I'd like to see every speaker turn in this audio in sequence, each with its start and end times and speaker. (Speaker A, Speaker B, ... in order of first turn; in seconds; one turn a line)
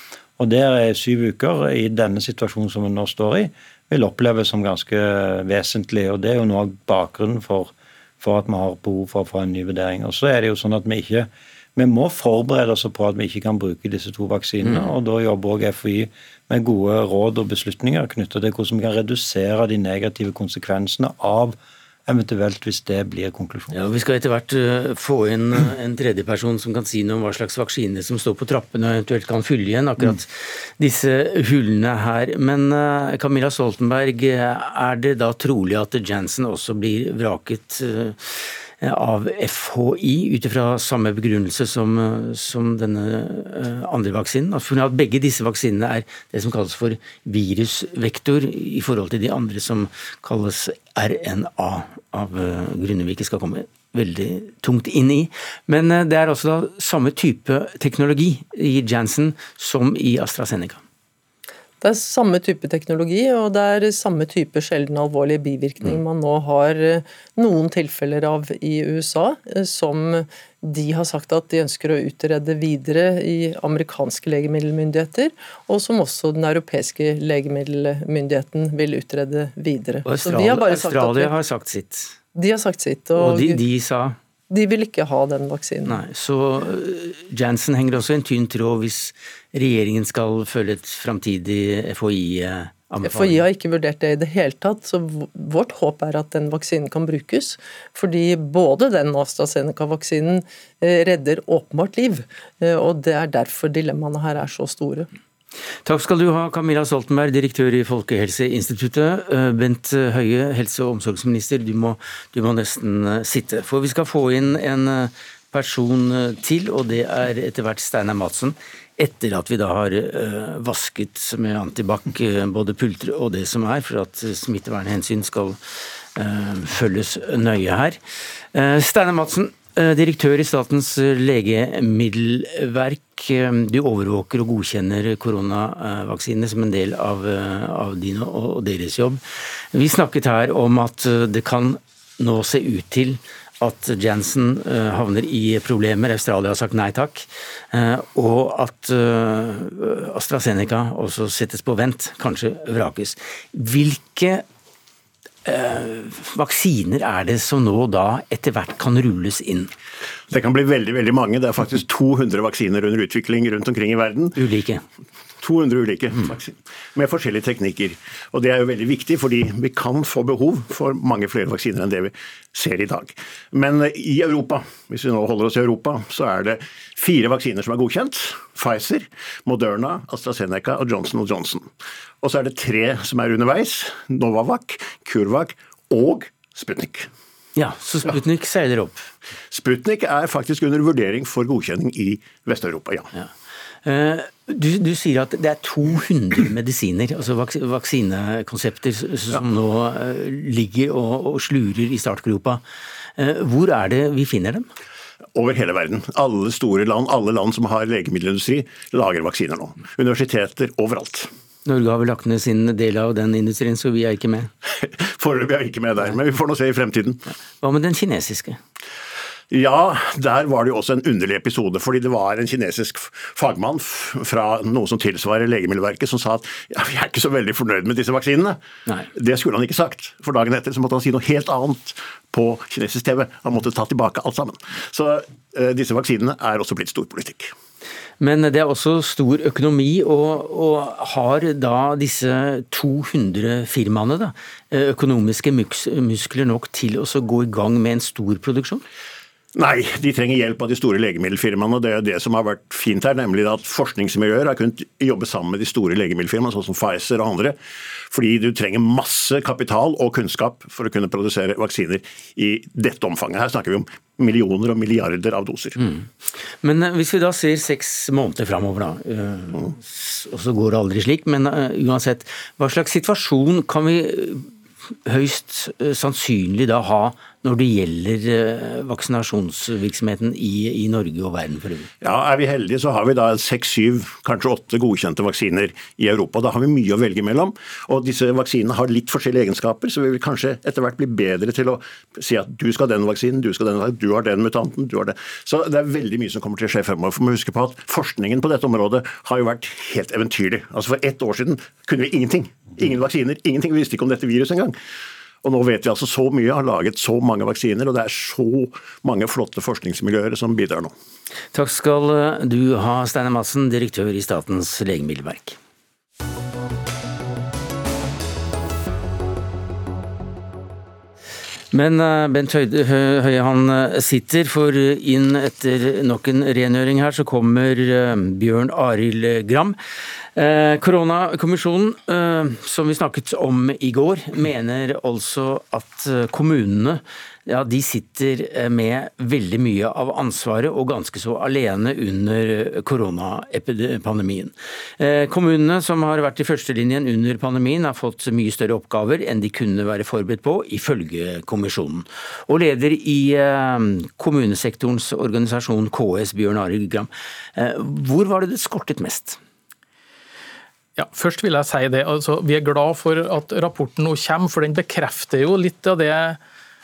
Speaker A: 0.4-23.8
Speaker B: 23.7-60.8
Speaker C: 61.8-81.3
Speaker B: 80.0-82.2
Speaker C: 82.3-83.6
Speaker B: 83.2-84.2
Speaker C: 84.5-86.0
Speaker B: 85.8-93.5
Speaker C: 93.0-105.1
Speaker B: 105.8-125.6
Speaker B: 126.2-128.0
Speaker B: 128.5-139.2
Speaker B: 139.7-154.4
Speaker B: 155.4-159.7
Speaker D: 160.3-164.4
Speaker B: 164.4-164.8
Speaker D: 165.4-187.1
Speaker B: 187.6-189.1
Speaker D: 189.5-193.1
Speaker B: 193.8-202.6
Speaker B: 203.2-204.7
Speaker D: 205.4-211.3
Speaker B: 211.7-214.5
Speaker D: 214.8-217.2
Speaker B: 217.6-218.6
Speaker D: 219.5-228.6
Speaker D: 229.1-237.5
Speaker B: 238.2-248.8
Speaker D: 249.6-265.8
Speaker B: 265.8-274.5
Speaker B: 275.1-281.9
Speaker D: 282.0-304.8
Speaker D: 305.4-310.9
Speaker B: 311.5-315.6
Speaker B: 321.7-329.8
Speaker B: 330.4-359.4
Speaker E: 361.0-366.4